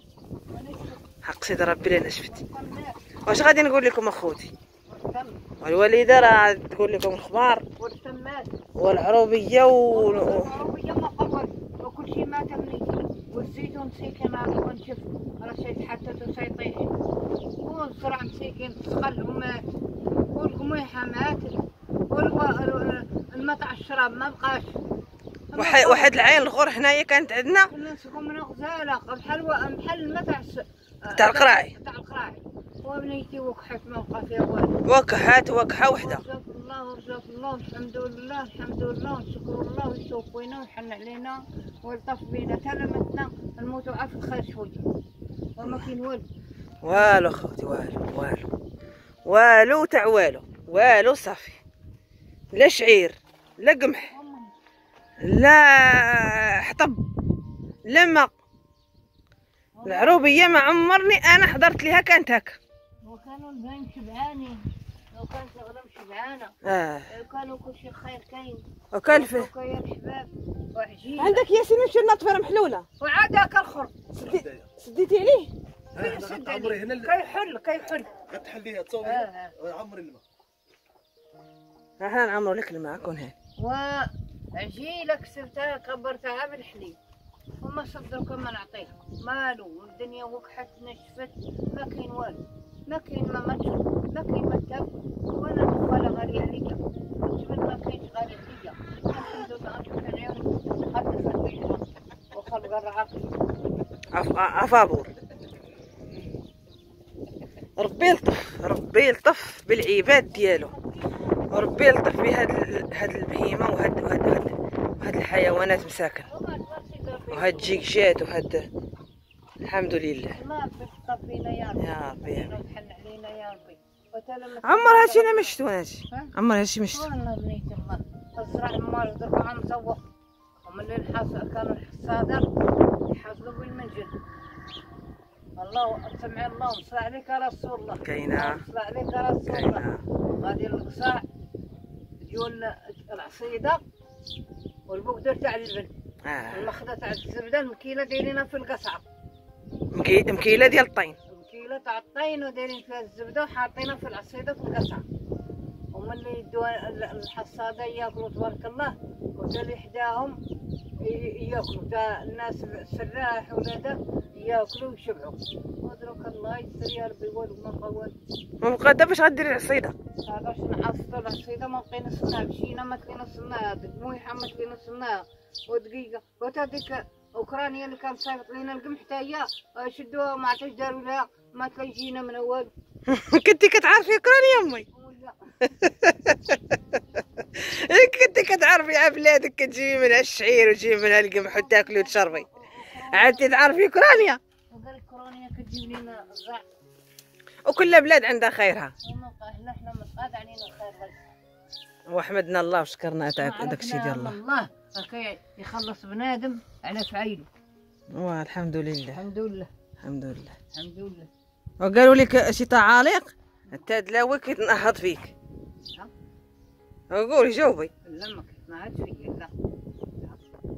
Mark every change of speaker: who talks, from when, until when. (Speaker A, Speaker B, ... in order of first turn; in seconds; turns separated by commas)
Speaker A: 0.5-1.0, Speaker B: 1.2-2.4, Speaker A: 2.3-3.0, Speaker B: 3.3-4.5, Speaker A: 4.9-5.4, Speaker B: 5.6-7.6, Speaker A: 7.8-8.5, Speaker B: 8.8-10.5, Speaker A: 9.9-16.9, Speaker A: 17.6-19.6, Speaker A: 20.3-21.6, Speaker A: 22.1-24.8, Speaker A: 25.5-26.4, Speaker B: 25.5-27.7, Speaker A: 27.7-34.8, Speaker B: 31.1-31.7, Speaker B: 34.8-36.2, Speaker A: 36.0-44.8, Speaker A: 45.6-46.2, Speaker B: 45.6-45.9, Speaker B: 46.8-48.5, Speaker B: 49.2-51.6, Speaker B: 52.5-54.1, Speaker A: 54.1-54.5, Speaker B: 55.2-57.0, Speaker B: 57.9-58.3, Speaker A: 59.8-60.4, Speaker B: 59.9-62.6, Speaker A: 63.0-64.6, Speaker A: 65.1-66.5, Speaker B: 66.6-67.1, Speaker A: 67.1-71.4, Speaker B: 68.9-69.5, Speaker B: 71.2-72.8, Speaker A: 73.0-73.9, Speaker B: 74.1-75.5, Speaker C: 74.2-74.7, Speaker C: 75.9-77.1, Speaker A: 76.0-78.1, Speaker C: 78.3-80.2, Speaker A: 79.0-79.5, Speaker B: 82.0-83.3, Speaker A: 83.6-87.0, Speaker A: 87.6-103.3, Speaker B: 104.1-105.1, Speaker B: 107.8-110.7, Speaker A: 110.2-111.6, Speaker B: 111.5-116.3, Speaker A: 116.3-117.9, Speaker B: 117.3-118.7, Speaker B: 119.6-120.4, Speaker A: 120.3-125.5, Speaker B: 121.8-122.5, Speaker B: 124.6-127.0, Speaker A: 126.9-130.0, Speaker A: 130.6-132.5, Speaker A: 133.1-134.1, Speaker A: 135.6-141.2, Speaker B: 138.0-138.6, Speaker B: 139.5-140.0, Speaker A: 142.2-143.8, Speaker A: 144.9-145.9, Speaker B: 146.2-146.7, Speaker A: 146.5-149.0, Speaker B: 149.9-151.2, Speaker A: 151.3-155.0, Speaker A: 155.9-160.4, Speaker A: 161.0-168.1, Speaker B: 168.6-169.9, Speaker A: 170.2-182.7, Speaker B: 183.1-184.9, Speaker A: 184.9-185.4, Speaker B: 185.7-186.8, Speaker B: 187.5-192.4, Speaker A: 191.4-193.5, Speaker B: 193.1-194.4, Speaker A: 194.7-196.6, Speaker B: 197.7-198.9, Speaker A: 199.0-201.2, Speaker B: 202.1-204.4, Speaker A: 203.4-207.5, Speaker B: 208.1-209.2, Speaker A: 209.1-209.7, Speaker B: 210.0-210.6, Speaker A: 210.7-211.3, Speaker B: 211.8-215.3, Speaker B: 217.1-217.9, Speaker A: 218.0-219.5